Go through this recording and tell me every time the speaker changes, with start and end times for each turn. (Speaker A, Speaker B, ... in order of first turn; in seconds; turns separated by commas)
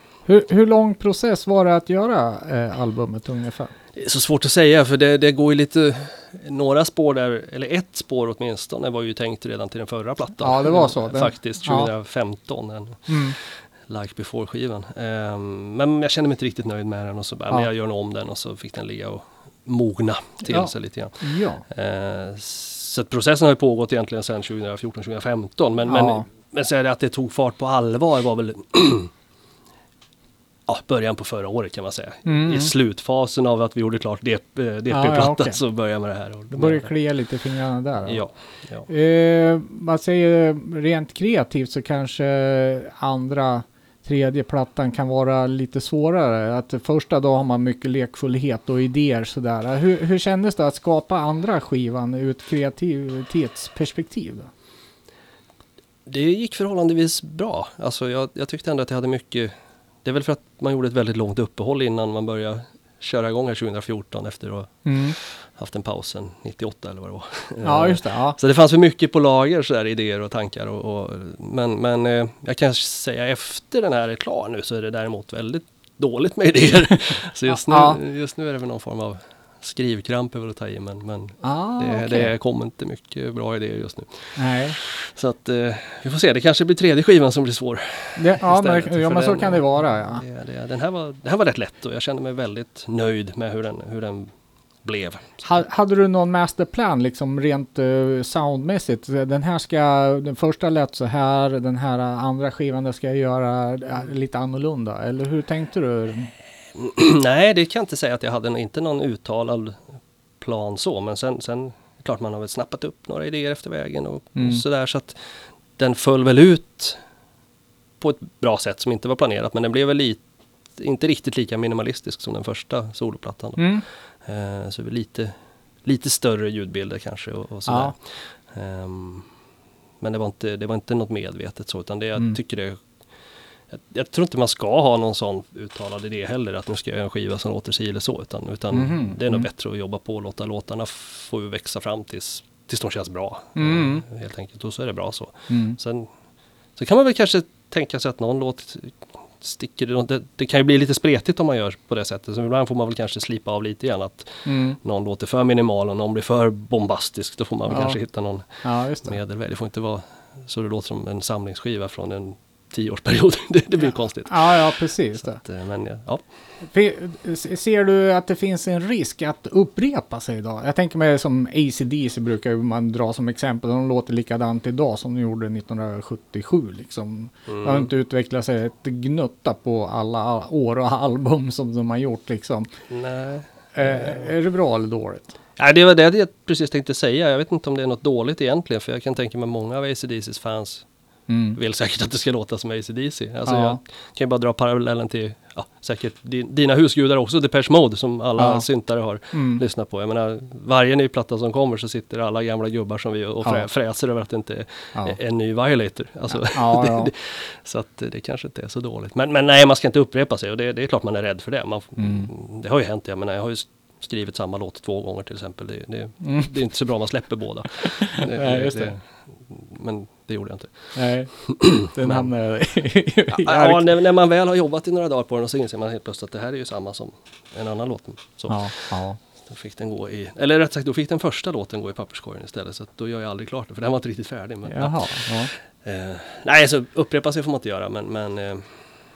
Speaker A: 0.3-3.7, Speaker B: 4.0-29.1, Speaker A: 10.4-11.9, Speaker A: 13.1-13.3, Speaker A: 20.4-21.6, Speaker A: 25.9-26.2, Speaker B: 30.7-36.9, Speaker A: 32.2-32.7, Speaker A: 34.9-35.6, Speaker A: 36.5-38.2, Speaker B: 38.1-38.9, Speaker A: 38.9-54.5, Speaker B: 56.1-94.3, Speaker A: 64.8-65.1, Speaker A: 67.6-68.3, Speaker A: 77.5-78.0, Speaker A: 81.4-82.3, Speaker A: 84.3-84.8, Speaker A: 88.2-90.2, Speaker B: 94.8-95.3, Speaker A: 95.4-106.3, Speaker B: 106.8-109.8, Speaker B: 110.4-115.2, Speaker A: 114.3-114.6, Speaker B: 115.8-117.0, Speaker B: 118.0-120.2, Speaker B: 120.8-129.3, Speaker A: 123.6-123.8, Speaker A: 127.7-127.9, Speaker B: 130.0-132.8, Speaker B: 133.7-146.1, Speaker A: 138.7-139.5, Speaker A: 143.6-144.0, Speaker A: 145.5-145.8, Speaker B: 146.8-166.2, Speaker A: 154.4-154.8, Speaker A: 157.7-159.2, Speaker A: 163.8-165.4, Speaker A: 166.7-182.7, Speaker B: 177.5-177.9, Speaker B: 182.9-184.3, Speaker A: 183.8-185.3, Speaker B: 185.6-190.8, Speaker A: 191.3-191.6, Speaker B: 191.5-222.3, Speaker A: 193.4-193.8, Speaker A: 198.4-198.7, Speaker A: 199.3-199.6, Speaker A: 206.3-207.1, Speaker A: 212.0-212.3, Speaker A: 216.2-216.5, Speaker A: 218.3-218.9, Speaker A: 220.9-223.8, Speaker B: 223.3-238.7, Speaker A: 228.5-229.2, Speaker A: 234.7-235.5